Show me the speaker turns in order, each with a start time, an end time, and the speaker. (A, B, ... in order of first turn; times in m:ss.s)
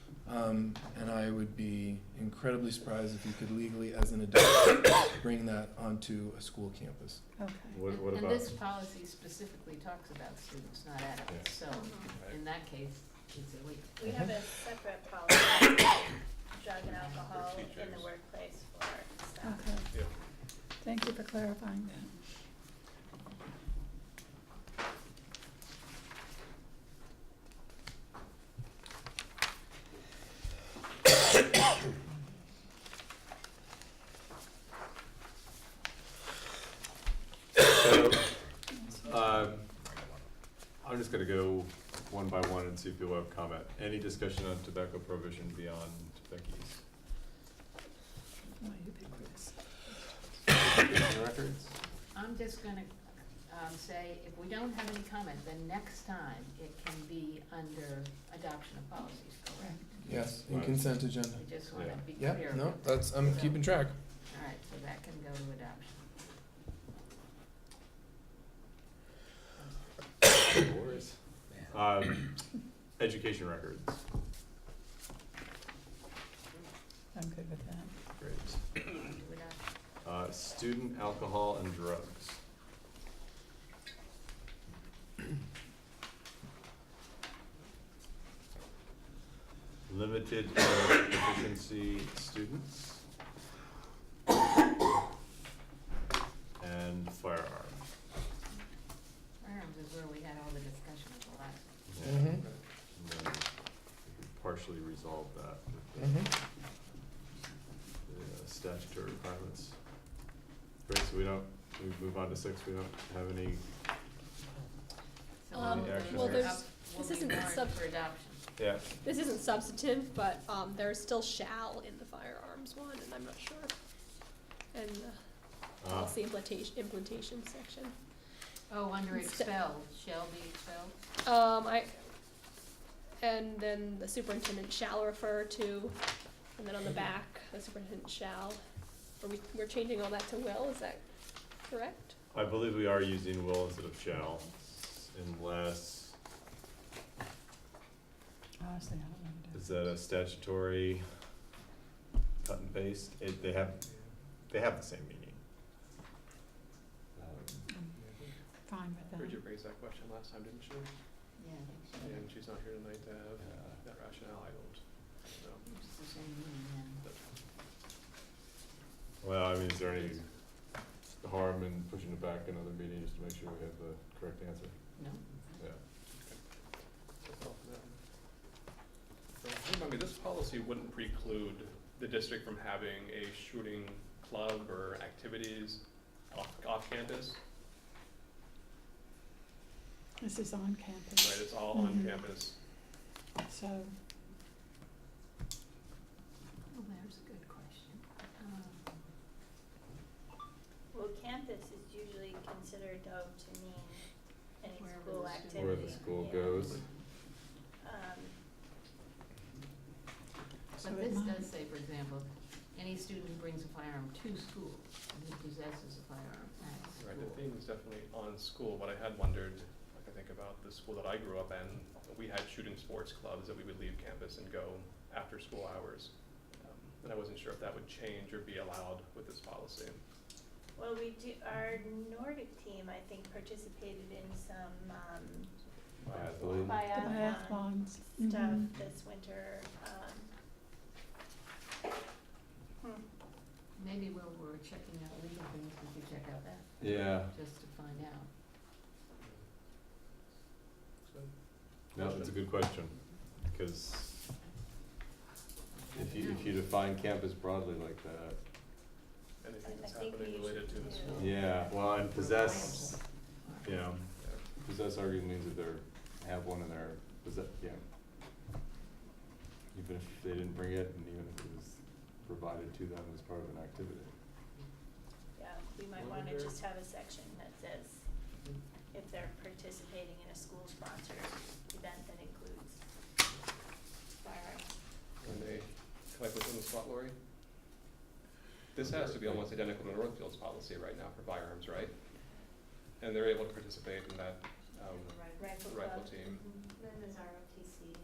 0:00.2-0:07.2 A
0:07.4-0:07.8 B
0:07.7-0:08.5 C
0:07.8-0:14.3 D
0:11.8-0:12.1 E
0:12.1-0:12.4 F
0:14.0-0:19.7 E
0:16.9-0:17.2 D
0:17.3-0:18.1 F
0:19.4-0:19.9 B
0:20.8-0:22.2 B
0:37.6-0:38.5 C
0:39.0-0:39.7 C
0:40.8-0:46.8 C
0:48.6-0:49.8 B
0:50.5-0:51.8 C
0:52.1-0:52.9 D
0:53.5-0:59.9 D
1:00.0-1:03.9 A
1:00.3-1:00.8 C
1:01.3-1:03.5 D
1:01.7-1:02.0 F
1:04.3-1:06.0 D
1:10.5-1:14.0 C
1:17.1-1:18.0 B
1:18.2-1:18.6 C
1:19.0-1:19.6 D
1:20.0-1:22.4 C
1:29.9-1:33.0 C
1:36.6-1:37.8 C
1:39.4-1:41.8 D
1:41.9-1:42.4 C
1:42.0-1:42.4 A
1:42.2-1:42.6 F
1:42.9-1:46.3 C
1:46.0-1:46.3 A
1:48.0-1:49.8 C
1:50.8-1:53.6 C
1:55.4-1:58.5 D
1:55.5-1:57.7 G
1:55.5-1:56.6 C
1:58.6-1:58.9 C
1:59.0-2:03.7 G
2:04.7-2:08.0 G
2:05.8-2:06.1 C
2:08.7-2:11.0 D
2:09.1-2:09.5 G
2:11.2-2:12.1 G
2:13.2-2:16.0 G
2:16.5-2:18.6 G
2:19.2-2:21.1 G
2:21.6-2:22.1 G
2:22.3-2:26.2 C
2:28.6-2:29.6 B
2:29.5-2:31.1 C
2:32.4-2:33.8 C
2:34.5-2:35.4 C
2:37.2-2:37.7 C
2:37.7-2:37.9 B
2:38.0-2:38.3 F
2:38.6-2:39.4 B
2:39.1-2:40.9 F
2:41.4-2:42.3 D
2:42.0-2:45.7 F
2:45.6-2:47.0 D
2:47.0-2:47.4 F
2:49.2-2:50.3 C
2:51.1-2:54.8 C
2:55.0-2:55.6 D
2:57.2-2:58.0 F
2:59.4-3:07.4 F
3:10.2-3:12.2 B
3:11.2-3:12.6 F
3:13.4-3:14.0 B
3:16.7-3:19.0 D
3:20.9-3:26.7 E
3:24.7-3:27.0 D
3:25.5-3:26.8 C
3:27.8-3:28.4 E
3:30.8-3:31.5 B
3:30.8-3:37.4 D
3:36.9-3:50.0 F
3:50.8-3:55.5 E
3:56.0-3:56.9 F
3:56.1-3:56.9 C
3:56.8-3:58.8 B
3:56.9-4:00.3 E
4:02.8-4:03.0 E
4:03.8-4:08.3 D
4:06.8-4:07.3 C
4:09.2-4:09.5 F
4:11.0-4:11.3 F
4:11.9-4:12.3 F
4:11.9-4:14.2 C
4:15.8-4:16.6 D
4:15.9-4:18.4 C
4:19.4-4:21.4 F
4:19.6-4:21.2 E
4:21.2-4:22.9 C
4:22.1-4:23.7 D
4:23.6-4:27.8 C
4:24.0-4:24.4 F
4:29.7-4:34.1 C
4:35.4-4:38.0 E
4:36.0-4:36.5 F
4:38.9-4:42.8 E
4:44.2-4:44.7 E
4:45.2-4:47.2 F
4:45.3-4:45.6 C
4:48.7-4:51.9 F
4:48.8-4:49.4 C
4:53.0-4:56.4 F
4:55.4-4:56.6 E